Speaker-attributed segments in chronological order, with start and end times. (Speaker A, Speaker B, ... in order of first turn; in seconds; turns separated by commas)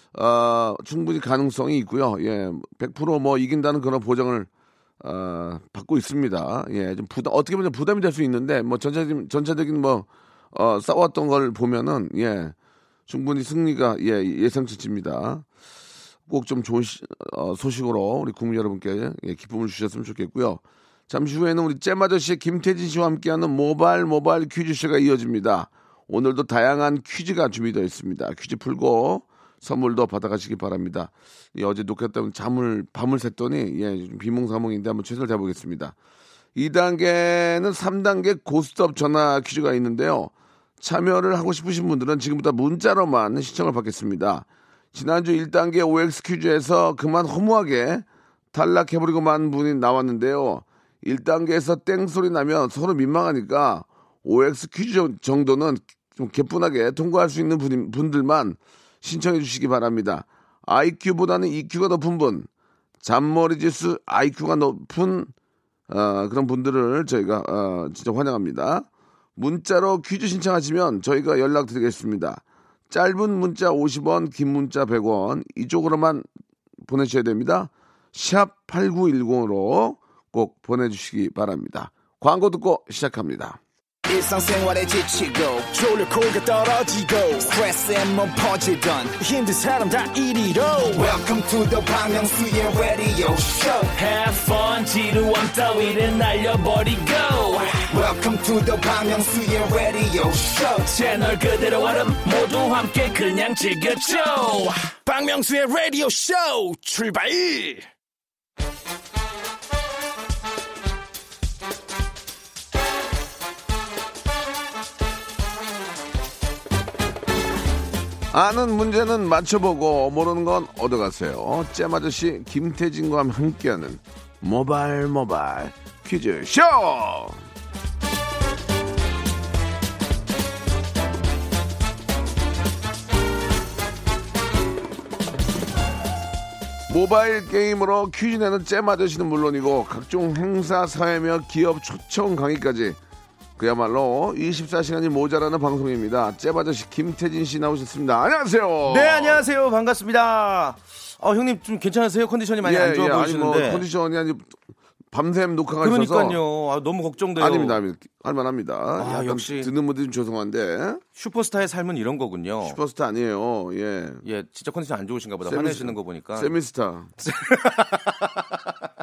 Speaker A: 0.1-4.5, Speaker A: 5.0-12.5, Speaker A: 13.1-15.4, Speaker A: 16.3-35.9, Speaker A: 36.5-62.5, Speaker A: 63.0-65.3, Speaker A: 65.9-76.3, Speaker A: 76.8-83.6, Speaker B: 84.1-93.9, Speaker C: 93.9-97.9, Speaker B: 97.9-100.9, Speaker C: 100.8-105.0, Speaker D: 105.1-107.8, Speaker A: 118.3-127.4, Speaker A: 136.9-143.0, Speaker A: 143.6-149.5, Speaker E: 148.8-153.8, Speaker A: 152.6-154.6, Speaker A: 155.1-156.4, Speaker E: 155.8-157.8, Speaker A: 157.3-161.0, Speaker E: 159.0-159.7, Speaker E: 161.2-162.8, Speaker A: 162.6-164.2, Speaker E: 164.2-166.5, Speaker A: 165.5-167.1, Speaker E: 167.2-168.7